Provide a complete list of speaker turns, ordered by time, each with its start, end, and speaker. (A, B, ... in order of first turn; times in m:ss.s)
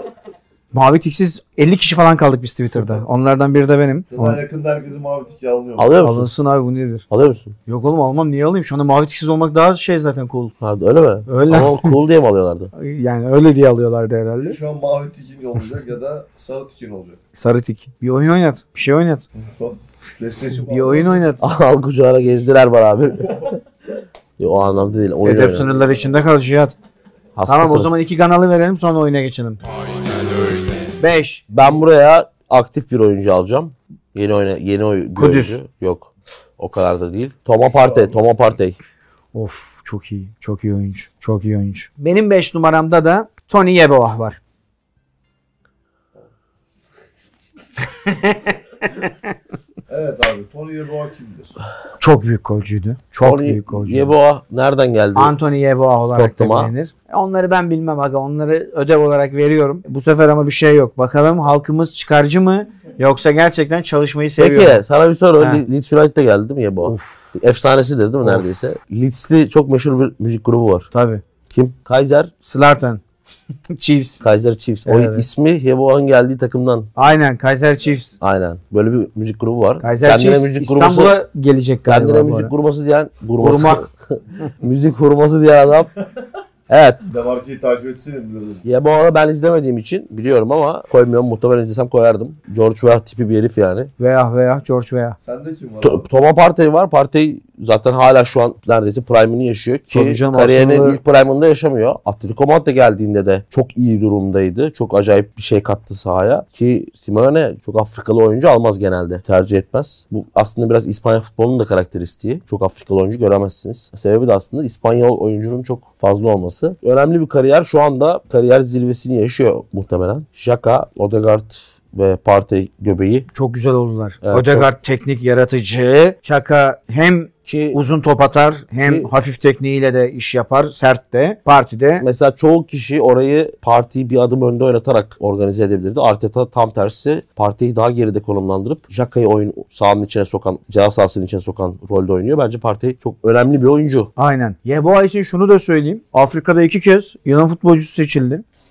0:00.7-0:04.4 A
0:04.1-0:05.9 B
0:05.8-0:06.3 C
0:06.0-0:07.0 A
0:07.1-0:07.5 C
0:07.7-0:10.5 A
0:10.6-0:12.7 C
0:11.3-0:12.0 A
0:12.7-0:14.6 A
0:14.4-0:17.2 B
0:17.3-0:19.2 A
0:19.3-0:21.2 B
0:20.7-0:21.4 A
0:21.4-0:23.6 C
0:24.4-0:25.8 C
0:25.2-0:26.7 A
0:27.4-0:28.1 C
0:27.4-0:29.6 A
0:31.0-0:31.5 A
0:31.5-0:38.8 C
0:35.2-0:35.6 A
0:37.7-0:38.2 B
0:39.3-0:44.4 A
0:48.1-0:48.4 A
0:49.9-0:51.5 B
0:52.0-0:54.1 A
0:53.2-0:55.4 C
0:55.1-1:04.8 A
0:56.1-0:56.7 C
1:04.4-1:10.9 C
1:05.4-1:05.6 A
1:06.8-1:07.1 A
1:08.2-1:08.5 A
1:10.9-1:11.2 A
1:11.5-1:12.3 C
1:12.4-1:13.0 A
1:13.7-1:14.2 A
1:14.2-1:16.9 C
1:14.8-1:15.2 A
1:17.0-1:18.2 A
1:18.2-1:21.2 C
1:19.8-1:22.5 A
1:21.8-1:25.9 C
1:23.4-1:23.8 A
1:26.7-1:27.0 C
1:27.1-1:28.6 B
1:28.6-1:33.9 C
1:34.0-1:35.2 A
1:35.2-1:36.1 B
1:35.8-2:03.3 C
1:39.9-1:41.0 A
2:03.3-2:12.0 A
2:04.2-2:04.7 C
2:07.5-2:07.8 C
2:08.8-2:09.1 C
2:12.0-2:24.1 C
2:24.2-2:28.4 A